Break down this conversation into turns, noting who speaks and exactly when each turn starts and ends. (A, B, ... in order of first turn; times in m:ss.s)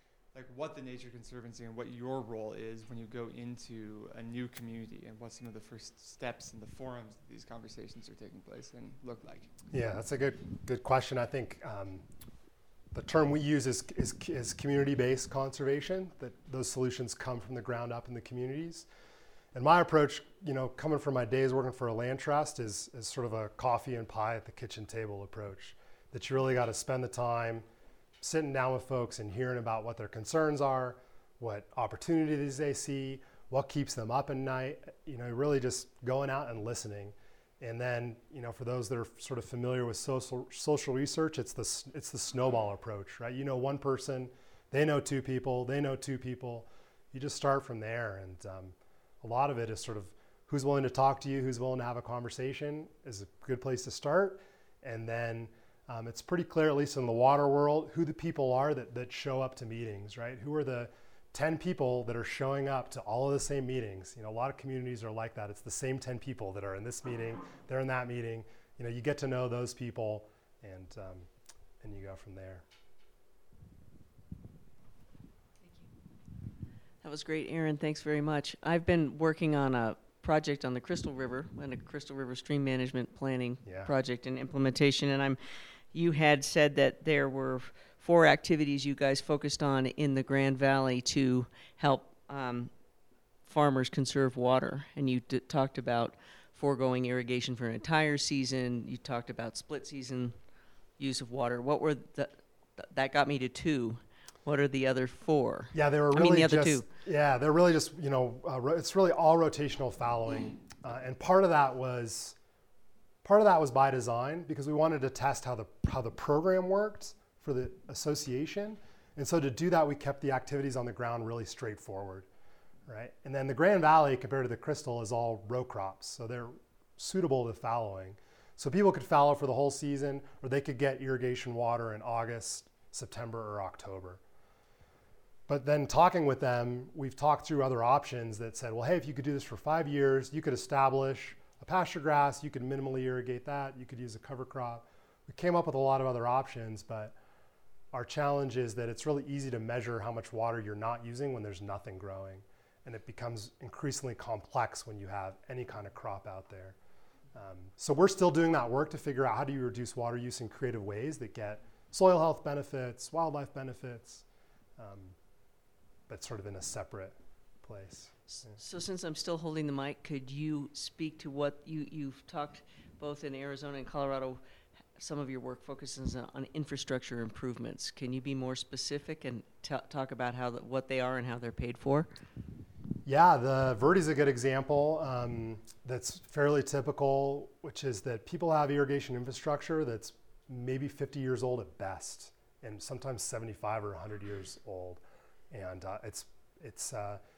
0:00.3-0:09.5 A
0:09.7-0:12.0 B
0:12.9-0:18.9 B
0:19.5-0:27.6 B
0:28.2-1:11.3 B
1:11.8-1:12.6 B
1:17.0-1:25.4 C
1:23.6-1:23.9 B
1:25.9-1:32.7 C
1:33.4-1:40.4 C
1:41.0-1:46.9 C
1:45.7-1:52.4 B
1:53.2-2:02.3 B
2:02.9-2:14.2 B
2:15.5-2:27.2 B
2:27.9-2:36.7 B
2:37.3-2:44.2 B
2:44.8-2:45.2 B
2:46.1-2:48.6 B
2:48.4-2:54.4 C
2:55.0-3:02.1 C
3:03.0-3:17.2 B